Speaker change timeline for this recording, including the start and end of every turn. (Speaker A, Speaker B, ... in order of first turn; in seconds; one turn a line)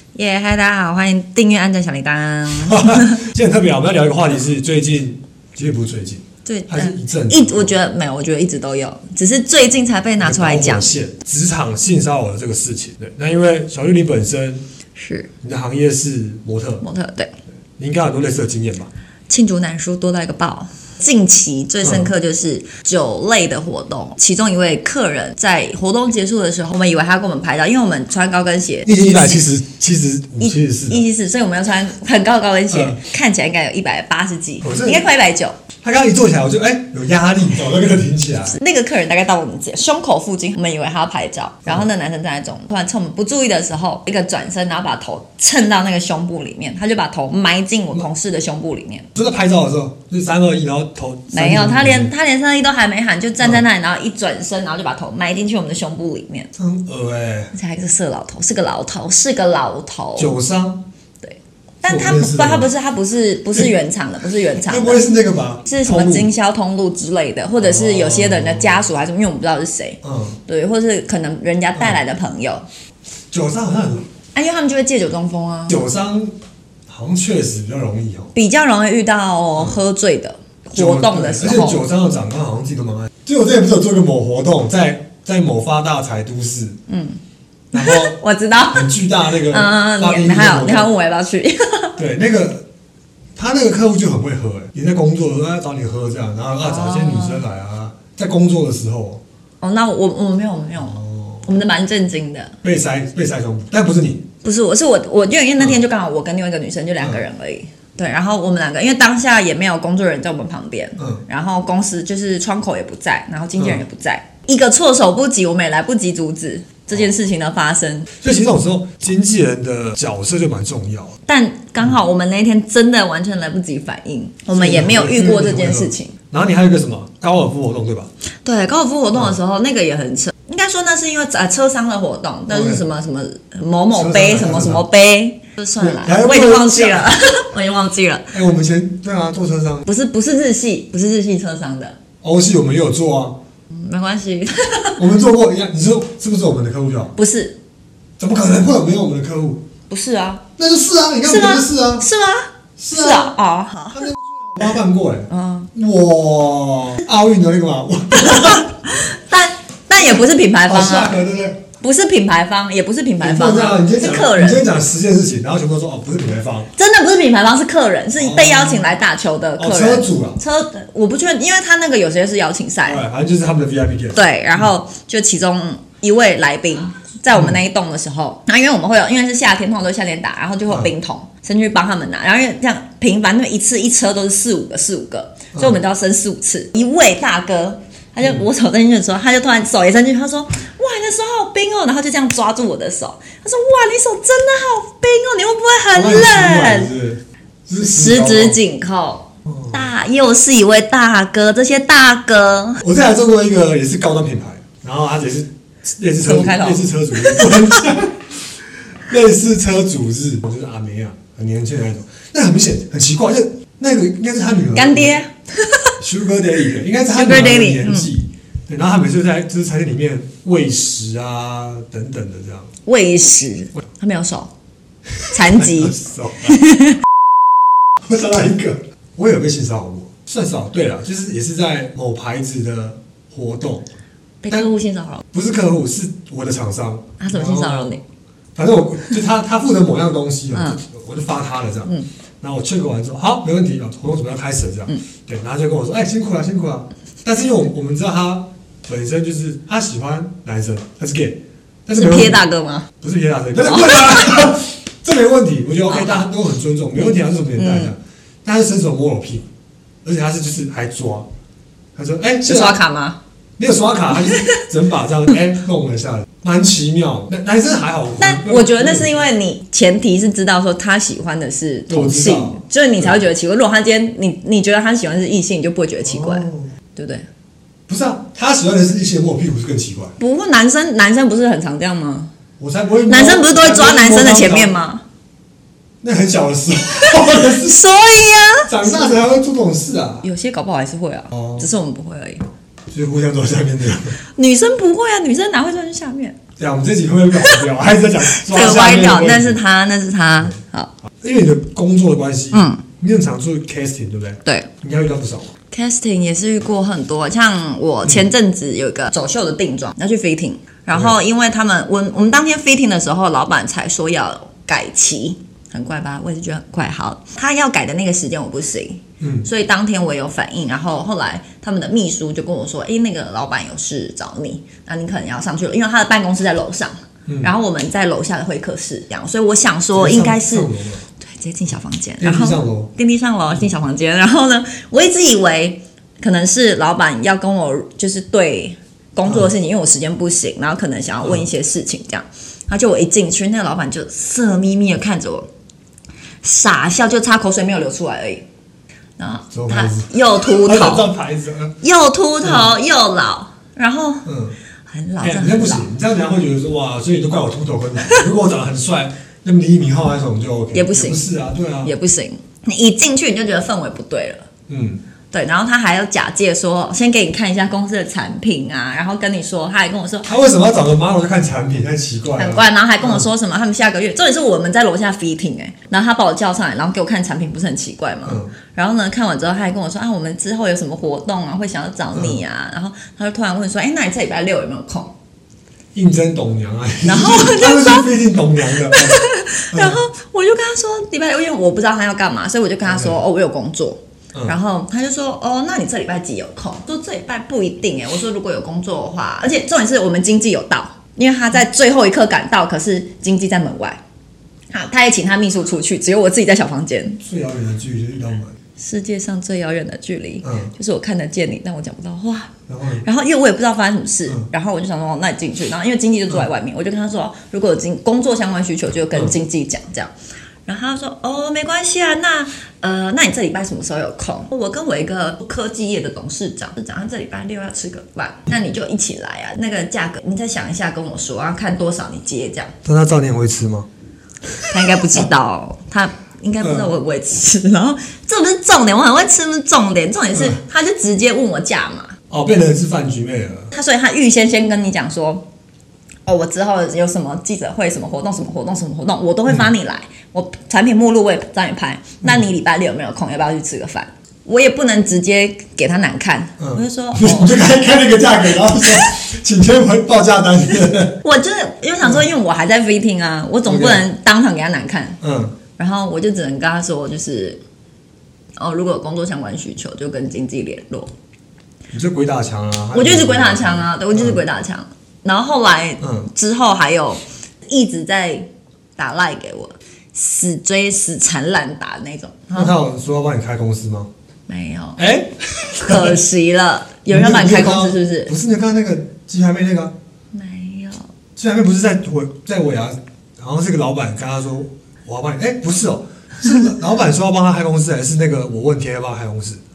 Speaker A: 0.1-3.2
Speaker B: 2.6-7.7
Speaker A: 6.5-10.9
Speaker B: 10.2-14.6
Speaker A: 14.9-15.3
Speaker B: 15.4-16.8
Speaker A: 16.8-17.3
Speaker B: 17.8-18.9
Speaker A: 19.3-29.4
Speaker B: 21.8-22.1
Speaker B: 28.8-31.1
Speaker A: 30.4-35.5
Speaker B: 32.7-33.0
Speaker B: 34.6-35.1
Speaker B: 35.8-38.5
Speaker A: 38.5-49.1
Speaker B: 49.1-52.1
Speaker A: 51.3-56.5
Speaker B: 56.5-57.5
Speaker A: 57.5-60.3
Speaker B: 60.1-60.8
Speaker A: 61.2-65.0
Speaker B: 61.8-62.7
Speaker B: 64.6-66.3
Speaker A: 65.7-72.6
Speaker B: 67.6-68.8
Speaker B: 70.0-70.4
Speaker B: 73.3-74.1
Speaker A: 74.3-75.7
Speaker B: 75.7-76.3
Speaker B: 76.9-78.3
Speaker A: 78.3-81.8
Speaker B: 80.7-86.8
Speaker A: 86.9-87.2
Speaker B: 87.7-88.2
Speaker A: 87.7-88.9
Speaker B: 88.7-90.9
Speaker A: 89.4-92.0
Speaker B: 92.0-92.7
Speaker B: 93.3-99.2
Speaker A: 96.6-97.4
Speaker A: 99.6-102.5
Speaker B: 100.8-101.5
Speaker B: 102.6-104.3
Speaker A: 104.4-118.1
Speaker B: 111.0-111.2
Speaker B: 113.6-113.8
Speaker B: 118.1-121.2
Speaker A: 121.3-126.1
Speaker B: 124.5-128.1
Speaker A: 128.4-138.3
Speaker B: 132.5-132.8
Speaker B: 133.9-134.8
Speaker B: 135.8-137.3
Speaker B: 138.3-139.8
Speaker A: 139.8-141.9
Speaker B: 142.2-143.4
Speaker A: 143.7-145.0
Speaker B: 145.0-147.1
Speaker A: 147.2-147.6
Speaker B: 148.2-149.7
Speaker A: 149.9-150.4
Speaker B: 150.6-152.1
Speaker A: 151.2-154.1
Speaker B: 152.8-153.3
Speaker B: 153.9-158.7
Speaker A: 155.3-155.7
Speaker A: 158.2-161.2
Speaker B: 160.6-161.6
Speaker A: 161.8-164.6
Speaker B: 163.2-166.7
Speaker A: 166.8-173.0
Speaker B: 168.2-169.0
Speaker B: 169.6-170.4
Speaker B: 172.8-174.7
Speaker A: 174.1-196.9
Speaker B: 177.3-177.6
Speaker B: 185.5-185.8
Speaker B: 188.2-188.4
Speaker B: 195.9-198.6
Speaker A: 197.8-202.8
Speaker B: 199.4-199.8
Speaker B: 202.8-215.2
Speaker A: 206.2-207.8
Speaker A: 214.7-215.9
Speaker B: 216.0-222.7
Speaker A: 217.1-218.1
Speaker A: 222.8-224.5
Speaker B: 225.2-226.6
Speaker A: 225.3-225.9
Speaker A: 226.5-227.0
Speaker B: 228.0-233.9
Speaker A: 234.4-235.2
Speaker B: 235.3-238.0
Speaker A: 237.2-238.0
Speaker B: 238.5-252.4
Speaker A: 240.5-240.8
Speaker A: 251.9-252.9
Speaker B: 253.0-259.5
Speaker A: 253.6-254.5
Speaker A: 255.9-256.2
Speaker A: 257.6-257.9
Speaker B: 260.0-261.3
Speaker B: 261.9-262.8
Speaker A: 262.4-263.2
Speaker B: 263.6-269.2
Speaker A: 264.2-264.6
Speaker A: 268.2-277.3
Speaker B: 271.9-273.2
Speaker B: 276.0-276.7
Speaker B: 277.9-280.1
Speaker A: 280.2-282.3
Speaker B: 282.6-284.8
Speaker A: 283.1-285.0
Speaker B: 286.0-287.8
Speaker A: 287.0-289.1
Speaker B: 288.6-290.2
Speaker A: 290.2-292.5
Speaker B: 291.3-291.7
Speaker B: 292.9-294.2
Speaker A: 294.4-296.4
Speaker B: 296.6-299.6
Speaker A: 298.3-300.9
Speaker B: 301.2-305.5
Speaker A: 302.5-302.8
Speaker A: 305.7-330.7
Speaker B: 310.9-311.1
Speaker B: 319.2-319.5
Speaker B: 327.3-327.5
Speaker B: 329.9-331.0
Speaker A: 331.2-345.5
Speaker B: 332.2-332.9
Speaker B: 339.2-339.5
Speaker A: 346.4-348.4
Speaker A: 349.2-351.1
Speaker B: 349.5-351.7
Speaker A: 351.8-354.2
Speaker B: 352.4-352.7
Speaker B: 354.2-354.6
Speaker A: 354.9-355.9
Speaker B: 355.2-361.9
Speaker A: 360.7-361.2
Speaker A: 361.8-364.5
Speaker B: 364.7-365.0
Speaker A: 365.3-370.3
Speaker B: 370.2-373.2
Speaker A: 372.4-385.1
Speaker B: 378.2-378.5
Speaker B: 382.1-382.4
Speaker B: 385.9-390.0
Speaker A: 387.0-388.1
Speaker A: 388.7-404.0
Speaker B: 392.8-393.2
Speaker A: 404.7-407.2
Speaker B: 407.2-408.6
Speaker A: 408.8-420.1
Speaker B: 410.4-410.7
Speaker B: 412.7-413.0
Speaker A: 420.6-432.7
Speaker B: 432.8-433.9
Speaker A: 434.7-442.1
Speaker B: 436.6-436.9
Speaker B: 442.3-443.7
Speaker A: 443.7-445.4
Speaker A: 446.2-457.6
Speaker B: 456.6-461.2
Speaker A: 461.2-465.2
Speaker B: 463.6-464.1
Speaker B: 465.2-465.6
Speaker A: 465.8-467.6
Speaker A: 468.6-471.1
Speaker B: 471.9-474.4
Speaker A: 472.9-482.7
Speaker B: 476.0-476.3
Speaker B: 482.5-484.1
Speaker A: 484.5-485.0
Speaker B: 485.0-486.2
Speaker A: 485.8-488.3
Speaker B: 487.1-489.9
Speaker A: 490.3-491.1
Speaker B: 491.4-499.6